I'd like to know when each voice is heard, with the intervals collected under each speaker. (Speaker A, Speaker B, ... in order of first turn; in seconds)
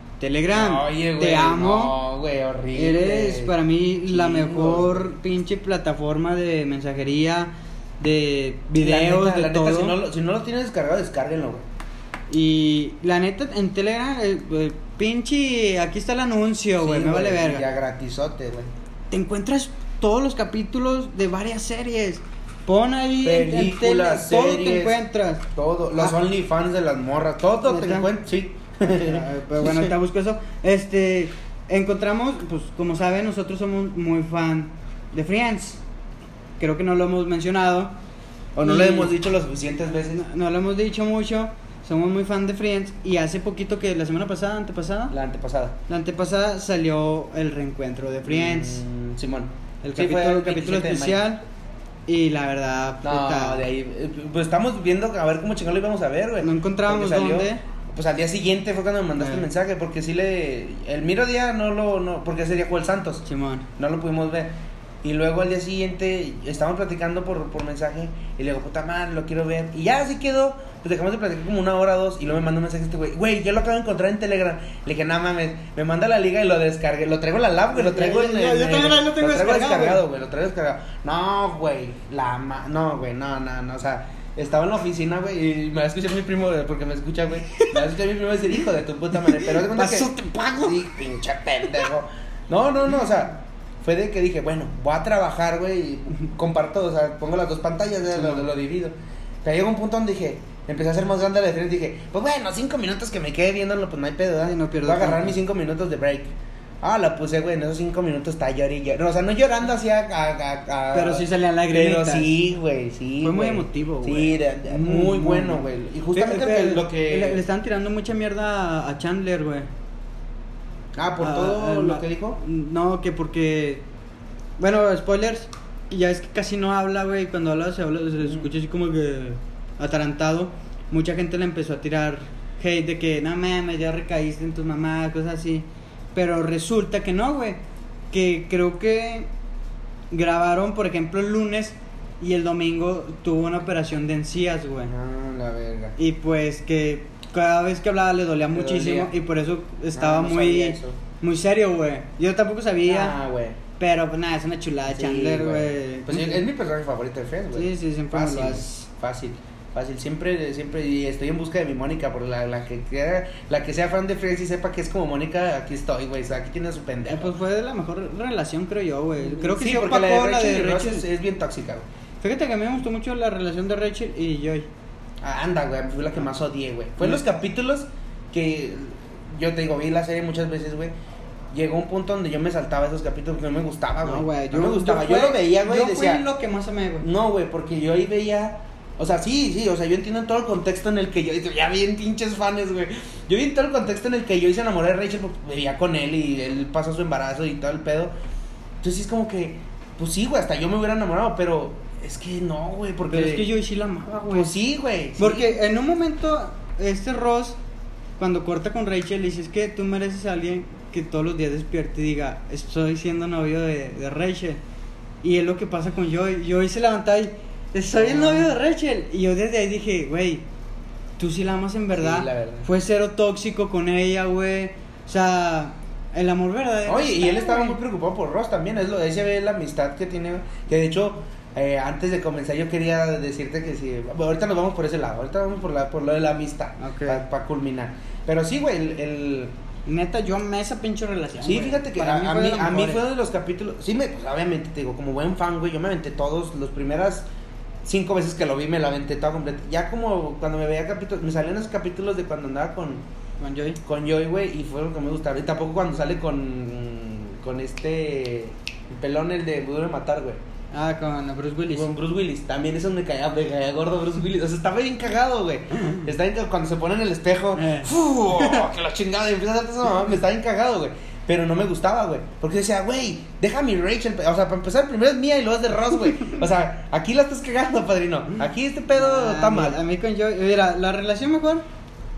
Speaker A: 0.2-2.0, 2.7-10.0, 12.3-17.6, 19.1-26.2, 27.6-28.1, 28.8-35.8, 36.6-37.9, 38.6-39.1, 39.9-45.1, 45.9-48.8, 49.8-51.4, 52.1-53.6, 56.4-57.6, 59.2-59.5, 63.2-63.7, 77.7-80.0, 87.5-87.8, 89.2-90.5, 98.2-98.4, 104.4-105.4, 110.9-112.3, 113.2-119.7, 121.2-123.8, 124.6-137.6, 138.1-139.3, 140.1-144.9, 146.0-153.2, 153.8-156.4, 157.5-158.9, 167.1-171.1, 172.2-174.7, 184.0-187.1, 203.0-204.6, 205.2-207.6, 208.2-214.6, 215.2-220.4, 221.2-227.8, 236.8-237.2, 239.9-243.0, 253.4-253.8, 260.7-261.9, 267.6-268.6, 278.9-281.6
Speaker B: 0.5-5.1, 8.7-11.7, 16.8-18.7, 23.2-25.0, 25.6-29.9, 38.6-40.2, 45.1-45.8, 48.2-51.3, 53.0-63.2, 63.8-64.5, 65.0-117.4, 121.0-122.4, 144.9-145.9, 148.5-149.1, 149.9-151.0, 152.9-153.6, 154.9-167.3, 169.2-171.9, 175.2-180.9, 181.5-186.2, 187.0-198.1, 198.8-203.5, 204.2-205.6, 217.9-218.5, 221.9-222.7, 226.9-239.5, 241.4-247.3, 247.8-253.0, 253.8-260.4, 261.7-279.8